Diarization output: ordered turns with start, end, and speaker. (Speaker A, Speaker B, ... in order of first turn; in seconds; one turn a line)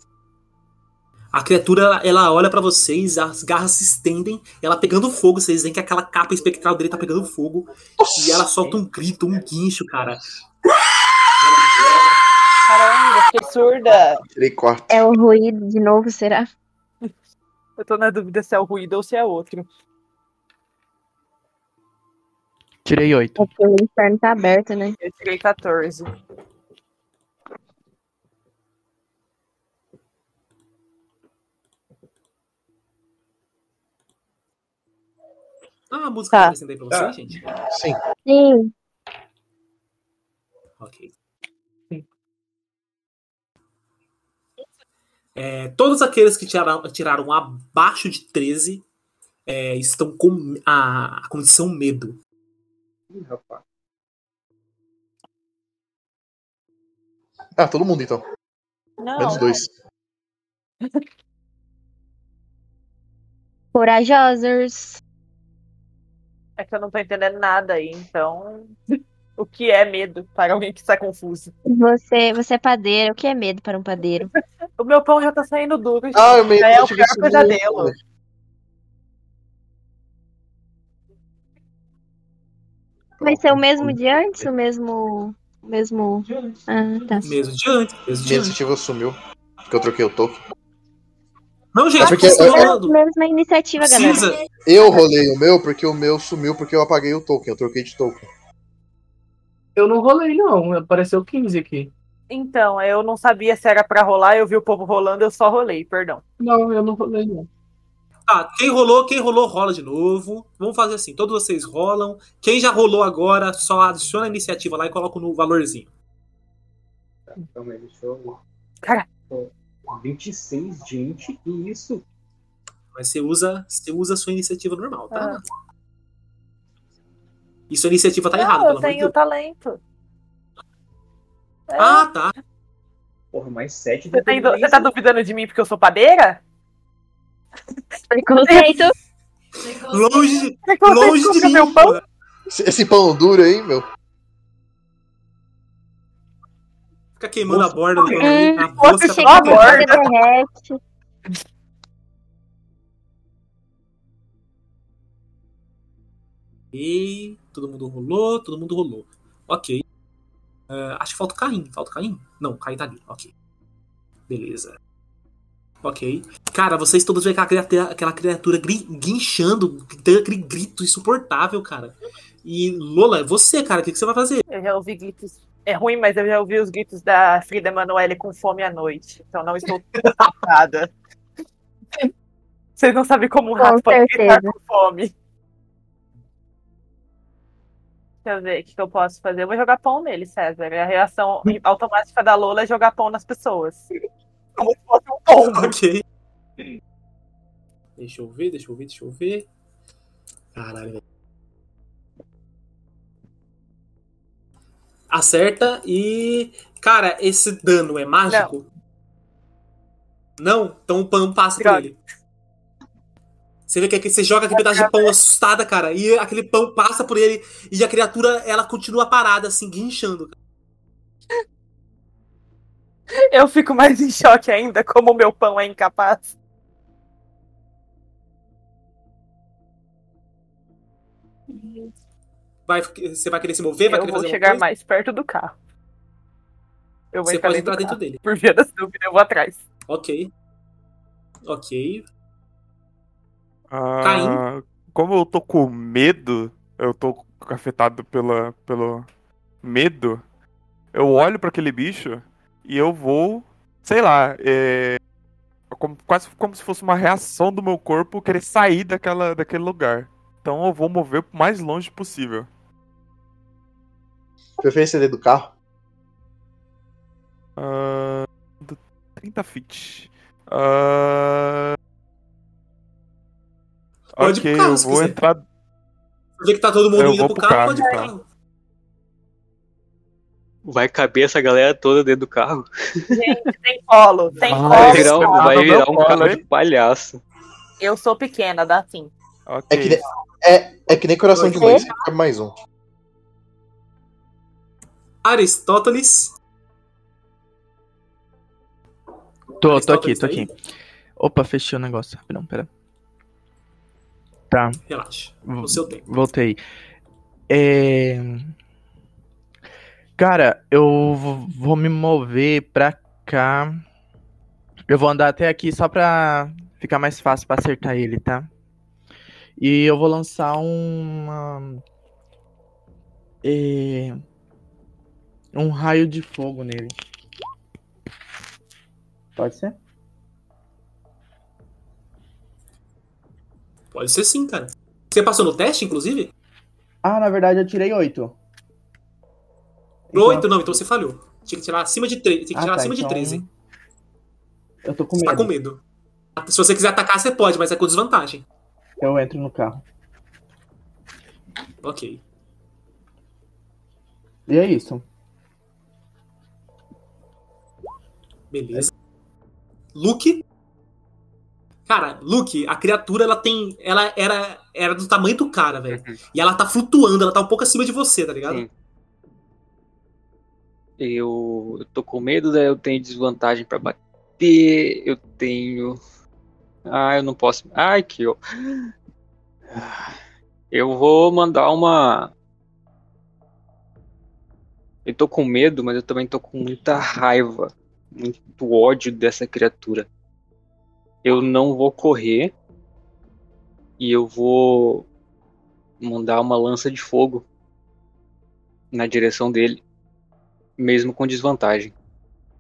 Speaker A: 1.3-10.2
Speaker B: 8.0-8.5
Speaker C: 12.7-14.2
Speaker B: 14.3-15.0
Speaker D: 14.9-16.5
Speaker C: 17.8-19.7
Speaker E: 22.8-23.4
Speaker D: 23.4-24.9
Speaker C: 25.0-26.1
Speaker A: 35.9-37.4
Speaker B: 37.7-38.0
Speaker D: 38.2-38.7
Speaker A: 40.8-41.1
Speaker A: 45.4-48.8
Speaker A: 49.5-52.2
Speaker F: 53.1-53.6
Speaker B: 57.6-58.2
Speaker C: 59.0-59.5
Speaker B: 59.2-59.7
Speaker D: 63.7-65.0
Speaker C: 66.6-68.8
Speaker C: 69.4-71.5
Speaker D: 71.7-74.3
Speaker C: 74.8-77.9
Speaker B: 76.1-77.9
Speaker B: 83.2-84.0
Speaker D: 83.2-87.3
Speaker A: 87.2-88.6
Speaker B: 88.2-89.2
Speaker B: 89.7-90.4
Speaker A: 91.7-93.0
Speaker D: 92.0-94.4
Speaker B: 92.0-92.7
Speaker A: 93.8-94.4
Speaker B: 94.7-98.2
Speaker G: 99.8-101.9
Speaker C: 102.3-106.2
Speaker G: 106.4-107.5
Speaker A: 108.3-115.9
Speaker F: 117.3-118.3
Speaker C: 118.8-119.1
Speaker F: 119.3-122.0
Speaker A: 122.9-125.5
Speaker A: 127.7-129.1
Speaker C: 128.3-129.8
Speaker C: 131.7-132.1
Speaker A: 131.8-132.3
Speaker F: 133.3-134.8
Speaker C: 134.1-136.4
Speaker D: 138.1-138.9
Speaker C: 138.5-138.7
Speaker A: 139.6-142.0
Speaker C: 140.6-142.0
Speaker B: 142.5-143.8
Speaker A: 147.2-150.1
Speaker B: 147.5-147.7
Speaker D: 148.2-150.8
Speaker C: 148.8-150.0
Speaker A: 156.7-159.8
Speaker A: 160.7-163.3
Speaker A: 164.3-164.8
Speaker A: 165.8-174.4
Speaker C: 174.5-180.9
Speaker C: 182.8-185.1
Speaker D: 183.6-184.5
Speaker C: 188.2-193.8
Speaker C: 194.6-195.7
Speaker A: 195.3-196.0
Speaker A: 198.0-199.5
Speaker A: 200.5-201.0
Speaker A: 205.1-208.7
Speaker A: 210.4-211.9
Speaker C: 211.6-211.9
Speaker A: 213.7-220.3
Speaker C: 214.5-215.1
Speaker C: 223.3-226.3
Speaker C: 231.5-231.9
Speaker A: 232.7-234.6
Speaker C: 233.8-235.6
Speaker C: 237.1-239.6
Speaker A: 237.3-238.2
Speaker A: 239.9-240.3
Speaker A: 241.4-242.1
Speaker H: 243.7-249.1
Speaker A: 244.0-244.4
Speaker H: 249.6-250.2
Speaker H: 250.9-255.0
Speaker H: 255.7-262.5
Speaker B: 264.6-265.5
Speaker H: 267.6-271.8
Speaker H: 274.2-275.4
Speaker A: 274.2-275.2
Speaker A: 276.4-278.2
Speaker H: 276.9-278.1
Speaker F: 280.6-283.2
Speaker C: 283.1-285.6
Speaker H: 284.5-286.4
Speaker F: 284.5-287.2
Speaker C: 287.8-289.1
Speaker H: 289.5-290.0
Speaker B: 289.7-292.5
Speaker A: 291.3-291.8
Speaker D: 291.5-291.9
Speaker A: 295.2-296.3
Speaker E: 299.6-300.5
Speaker A: 299.6-300.5
Speaker E: 301.2-302.7
Speaker E: 304.5-304.8
Speaker A: 304.9-306.1
Speaker E: 305.4-306.6
Speaker E: 307.5-308.5
Speaker E: 310.2-313.8
Speaker E: 314.9-318.5
Speaker E: 319.6-321.8
Speaker E: 323.4-324.2
Speaker E: 325.5-326.9
Speaker E: 329.4-329.7
Speaker A: 333.9-336.3
Speaker E: 337.0-338.3
Speaker E: 340.1-340.7
Speaker A: 340.1-343.4
Speaker E: 342.5-343.4
Speaker E: 344.8-345.5
Speaker A: 345.1-345.8
Speaker A: 346.4-348.4
Speaker E: 349.0-349.8
Speaker A: 351.8-352.2
Speaker E: 354.5-355.0
Speaker A: 358.5-358.9
Speaker A: 359.9-360.4
Speaker A: 361.9-368.6
Speaker F: 365.9-366.2
Speaker F: 371.0-376.0
Speaker F: 376.9-378.9
Speaker F: 379.7-380.2
Speaker F: 380.7-382.3
Speaker F: 385.0-390.1
Speaker F: 391.2-392.5
Speaker F: 394.0-395.1
Speaker F: 396.0-397.4
Speaker F: 398.9-399.8
Speaker F: 400.8-401.9